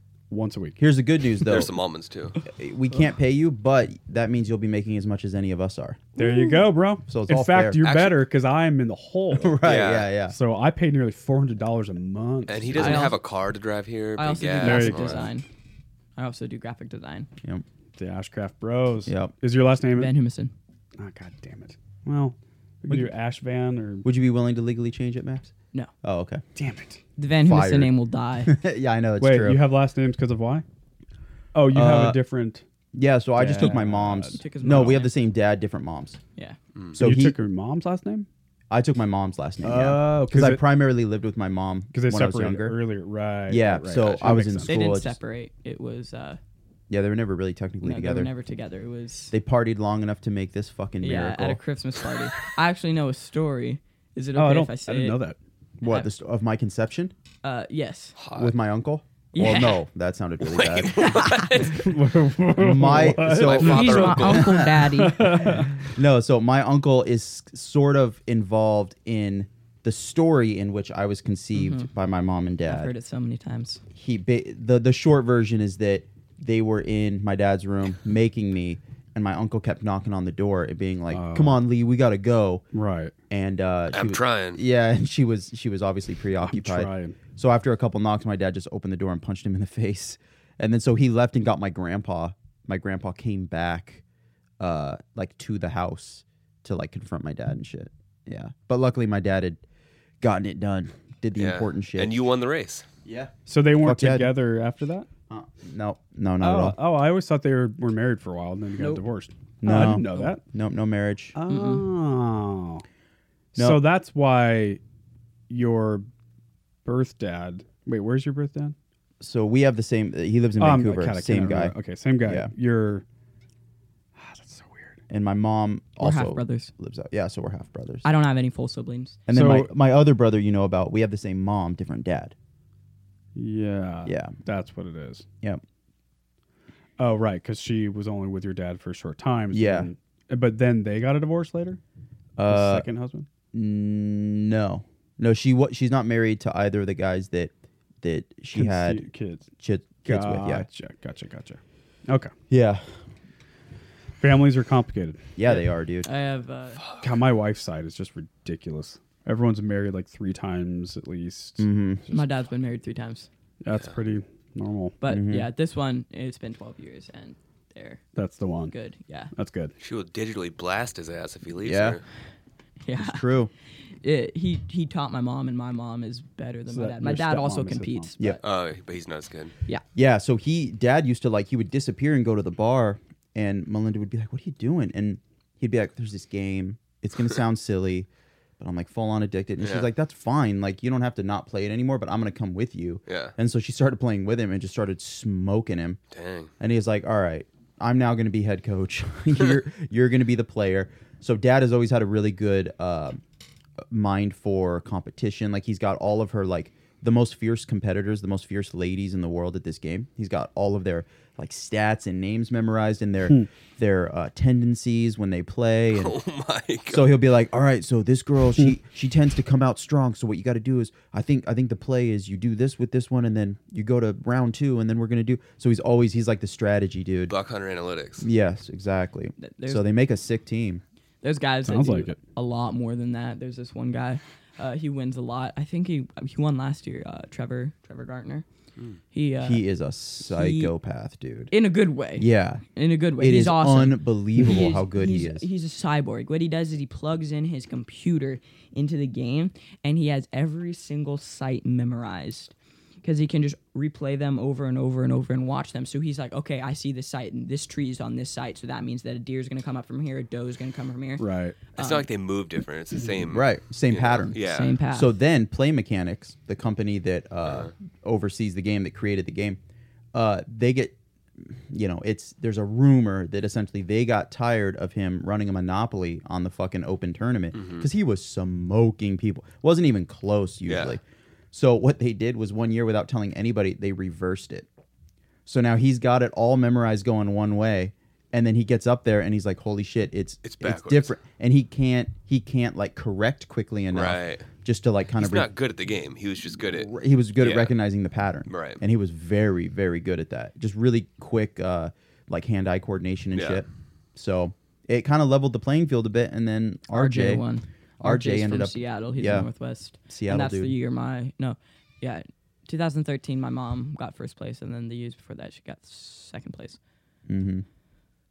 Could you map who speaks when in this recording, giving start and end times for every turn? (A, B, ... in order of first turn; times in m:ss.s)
0:00.3-0:00.8 A
0:00.8-0:01.8 B
0:01.4-0:02.4 C
0:02.4-0:06.1 B
0:06.2-0:09.6 A
0:06.2-0:06.6 D
0:07.1-0:07.8 B
0:07.8-0:08.3 C
0:09.3-0:10.4 B
0:09.6-0:10.1 C
0:10.3-0:13.1 A
0:12.5-0:15.3 C
0:12.8-0:13.2 D
0:14.2-0:15.5 D
0:14.6-0:15.3 A
0:16.2-0:17.3 D
0:18.0-0:20.1 A
0:19.0-0:19.3 B
0:20.0-0:20.5 D
0:21.0-0:24.1 A
0:24.0-0:25.5 B
0:26.0-0:26.4 B
0:26.6-0:27.0 A
0:27.2-0:28.6 D
0:27.4-0:29.6 B
0:29.2-0:30.6 A
0:31.5-0:32.6 A
0:31.7-0:32.2 B
0:32.9-0:36.2 B
0:33.4-0:35.0 A
0:34.4-0:35.2 D
0:36.9-0:37.4 B
0:37.0-0:38.3 A
0:38.7-0:42.8 B
0:39.6-0:40.6 A
0:41.9-0:44.8 A
0:43.5-0:45.2 B
0:44.6-0:46.4 D
0:46.9-0:48.3 B
0:47.8-0:49.3 D
0:49.3-0:51.6 B
0:51.0-0:55.2 D
0:54.4-0:55.4 A
0:55.8-0:57.1 B
0:57.4-0:58.2 D
0:58.2-0:58.5 C
0:58.3-1:01.2 B
0:59.3-0:59.8 D
1:00.4-1:01.9 C
1:01.0-1:01.5 D
1:01.7-1:05.9 A
1:02.6-1:04.8 B
1:03.3-1:04.5 C
1:03.6-1:05.4 D
1:05.8-1:12.9 B
1:11.6-1:11.9 D
1:12.7-1:13.8 D
1:14.0-1:22.6 B
1:21.1-1:21.6 A
1:22.7-1:23.1 A
1:23.3-1:34.0 B
1:23.9-1:24.6 C
1:26.4-1:27.2 A
1:34.6-1:39.6 B
1:40.2-1:42.2 B
1:41.4-1:42.9 C
1:43.0-1:44.3 B
1:43.5-1:45.1 A
1:45.3-1:46.8 B
1:46.4-1:50.4 A
1:48.8-1:49.1 D
1:49.6-1:51.4 B
1:49.7-1:50.3 D
1:51.4-1:52.8 A
1:51.5-1:51.9 D
1:53.6-1:53.8 B
1:53.6-1:54.8 A
1:55.5-1:56.1 A
1:56.8-1:58.8 A
1:59.2-2:02.5 B
2:00.6-2:03.0 A
2:04.2-2:05.0 A
2:05.1-2:08.1 B
2:06.0-2:06.7 D
2:08.0-2:09.2 D
2:09.3-2:12.4 B
2:09.3-2:09.7 A
2:13.4-2:15.3 A
2:14.0-2:14.4 B
2:17.0-2:21.8 A
2:19.5-2:19.9 B
2:22.4-2:22.9 B
2:22.5-2:23.3 A
2:23.5-2:29.1 B
2:28.5-2:29.5 A
2:29.6-2:30.7 B
2:30.0-2:32.3 A
2:32.5-2:33.0 B
2:34.2-2:35.6 A
2:35.4-2:36.1 B
2:36.0-2:36.8 D
2:37.0-2:42.3 A
2:41.6-2:42.0 B
2:42.1-2:43.3 D
2:43.6-2:45.0 A
2:45.0-2:48.0 D
2:45.1-2:45.5 B
2:48.2-2:48.7 A
2:48.7-2:49.3 D
2:49.3-2:49.7 A
2:49.8-2:52.0 C
2:51.6-2:52.0 B
2:52.8-2:53.2 D
2:53.0-2:53.5 B
2:54.0-2:58.4 D
2:56.7-2:58.1 A
2:58.4-2:59.5 C
3:00.0-3:08.1 B
3:08.6-3:16.0 B
3:09.6-3:09.9 C
3:13.1-3:13.4 C
3:16.1-3:16.5 C
3:16.6-3:23.2 B
3:23.9-3:36.2 B
3:35.9-3:37.2 C
3:36.9-3:47.3 B
3:47.3-3:48.3 C
3:48.2-3:50.8 B
3:49.4-3:49.8 D
3:51.2-3:58.4 D
3:51.6-3:52.2 A
3:59.1-3:59.6 D
3:59.4-4:01.5 B
4:00.2-4:00.7 D
4:01.5-4:12.5 D
4:02.2-4:02.6 B
4:03.2-4:05.5 B
4:13.0-4:22.1 D
4:21.2-4:21.6 A
4:21.8-4:24.8 C
4:23.2-4:24.4 B
4:24.2-4:25.1 D
4:24.9-4:29.6 B
4:27.4-4:27.7 C
4:30.1-4:41.0 B
4:37.5-4:37.9 C
4:40.7-4:41.0 C
4:41.5-4:44.7 B
4:45.5-4:55.5 B
4:50.4-4:51.2 C
4:53.9-4:54.5 C
4:55.2-4:57.8 C
4:56.6-5:07.5 B
4:58.5-4:58.8 C
5:03.3-5:03.6 C
5:06.9-5:16.8 D
5:08.0-5:10.7 B
5:17.3-5:17.7 B